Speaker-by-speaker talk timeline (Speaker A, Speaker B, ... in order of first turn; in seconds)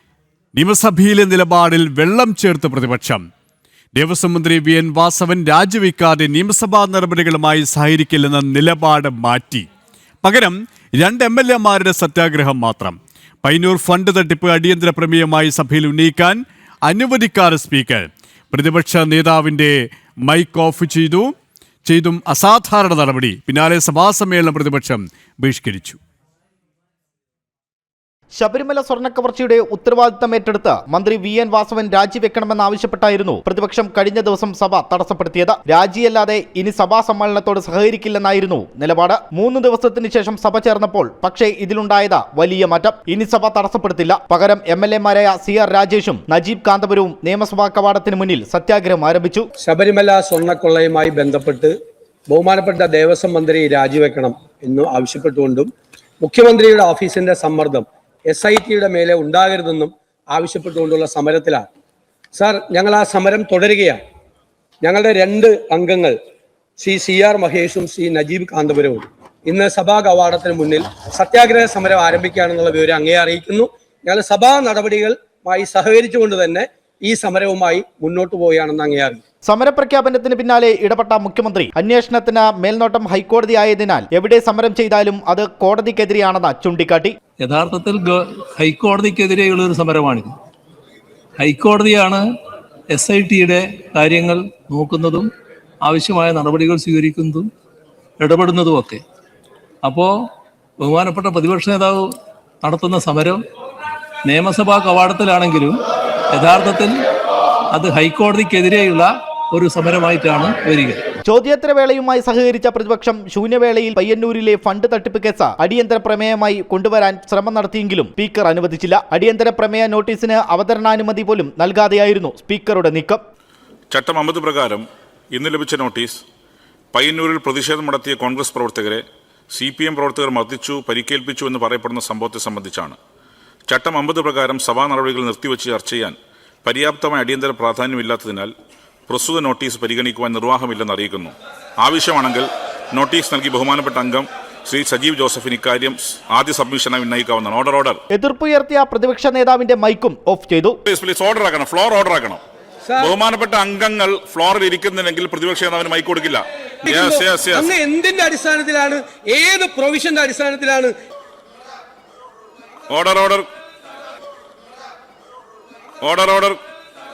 Speaker A: 0.6-3.2, 4.0-9.7, 10.2-21.3, 21.9-26.0
Speaker B: 28.4-49.5, 79.5-87.2, 111.3-123.2, 148.1-150.8
Speaker C: 49.6-51.7, 52.3-55.7, 56.2-61.6, 62.3-64.0, 64.8-66.2, 66.8-79.2, 152.8-153.2, 156.8-160.9
Speaker D: 87.5-88.0, 88.6-90.3, 91.4-92.2, 93.0-95.3, 95.8-97.5, 98.2-99.0, 100.8-102.0, 102.6-103.4, 104.3-105.8, 106.4-106.9, 107.8-111.0
Speaker E: 123.9-126.2, 126.9-133.0, 133.7-138.5, 139.1-148.0, 150.9-152.4, 153.0-157.7, 162.9-163.5, 166.0-166.6